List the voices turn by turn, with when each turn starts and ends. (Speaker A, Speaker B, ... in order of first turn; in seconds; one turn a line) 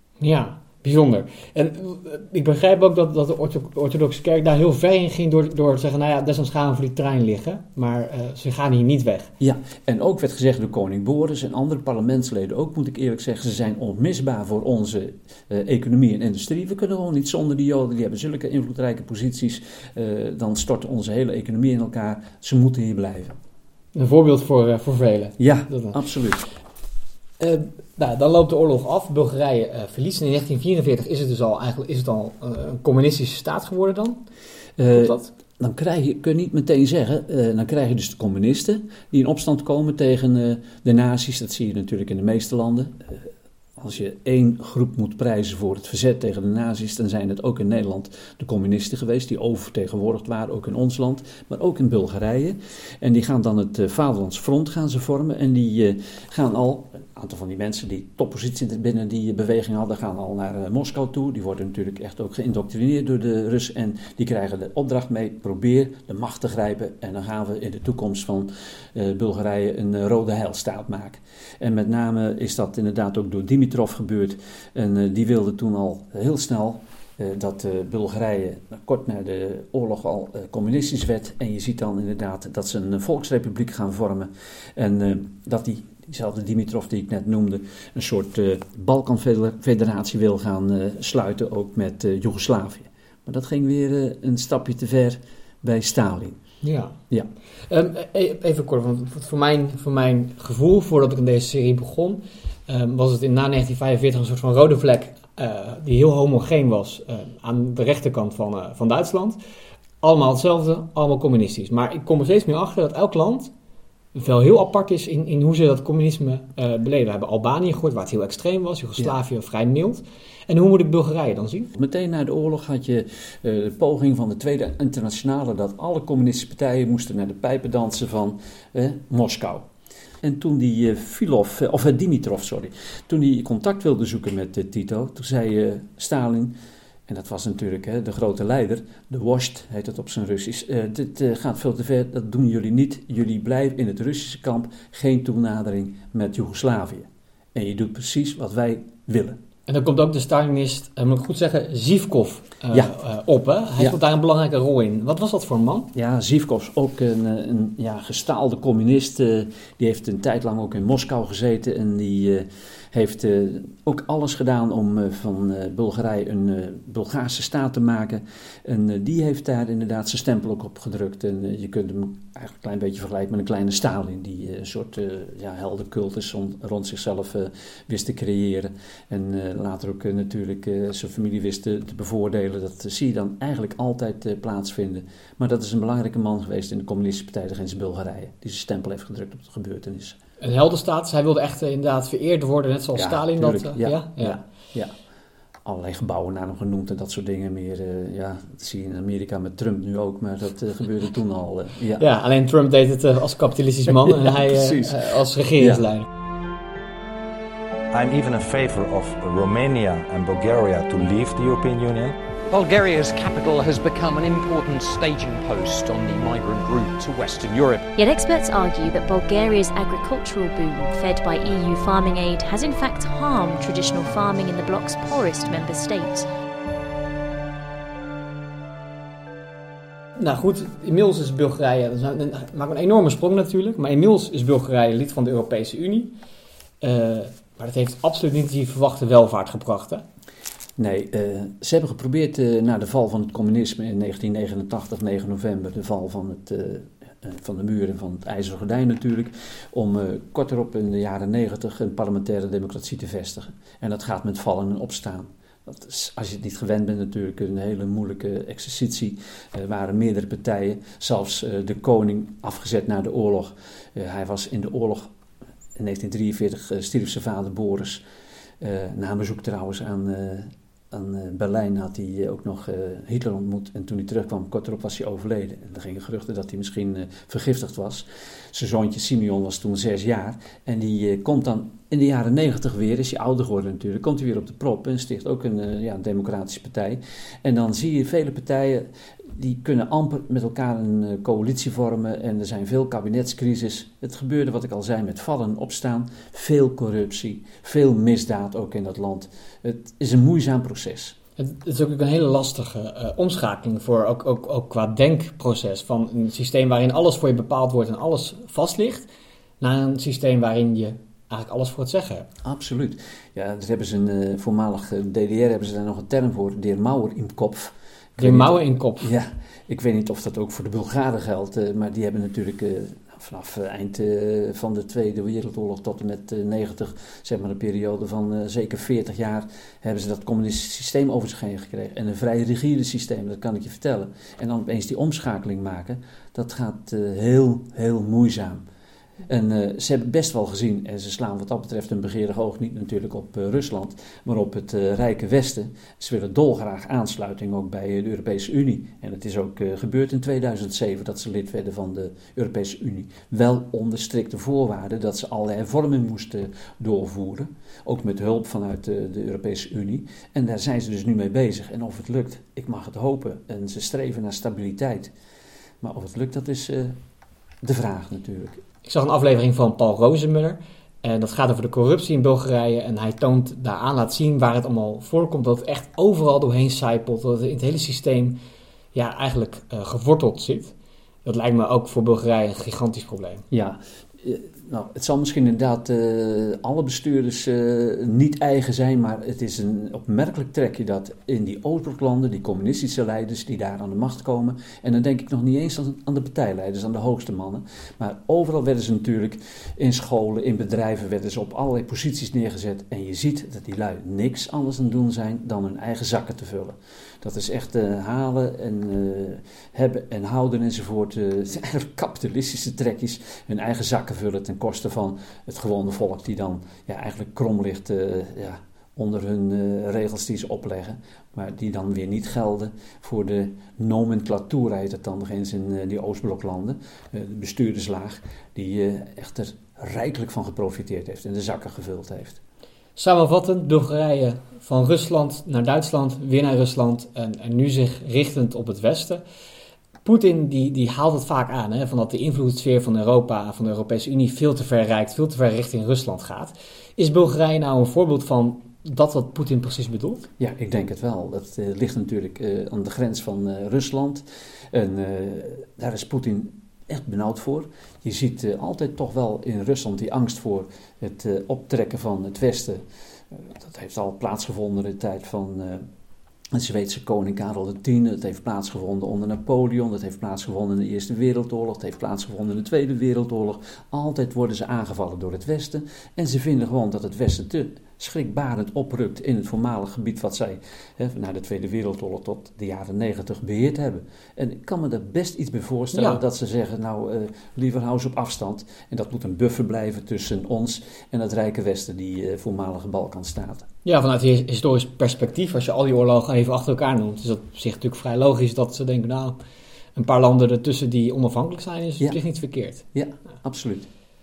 Speaker A: 0.2-9.3
Speaker B: 9.4-23.4
Speaker A: 23.9-26.0
Speaker B: 25.4-26.5
Speaker A: 27.4-34.2
Speaker B: 34.8-96.4
Speaker A: 35.0-35.3
Speaker A: 96.6-97.0
Speaker A: 97.7-109.4
Speaker A: 110.0-113.5
Speaker A: 114.1-121.7
Speaker B: 121.7-129.7
Speaker B: 130.2-136.6
Speaker B: 137.1-149.4
Speaker A: 149.7-155.9
Speaker B: 155.9-190.2
Speaker A: 190.4-194.4
Speaker B: 192.9-194.9
Speaker B: 195.7-202.0
Speaker A: 202.0-206.1
Speaker C: 207.9-212.2
Speaker D: 212.5-217.9
Speaker E: 218.0-226.3
Speaker A: 230.2-236.1
Speaker A: 236.8-240.0
Speaker B: 240.8-265.1
Speaker B: 265.8-268.0
Speaker B: 268.6-301.2
Speaker A: 301.4-309.1
Speaker A: 309.6-312.3
Speaker B: 312.4-338.6
Speaker A: 318.2-319.1
Speaker B: 339.3-365.1
Speaker B: 365.8-367.0
Speaker B: 367.6-368.6
Speaker A: 368.9-378.4
Speaker A: 378.9-380.7
Speaker A: 381.2-383.4
Speaker B: 383.5-432.4
Speaker A: 433.0-439.2
Speaker A: 440.0-450.2
Speaker B: 450.4-465.9
Speaker B: 466.5-493.7
Speaker A: 485.9-486.2
Speaker A: 493.9-499.4
Speaker A: 499.9-502.8
Speaker B: 502.9-503.9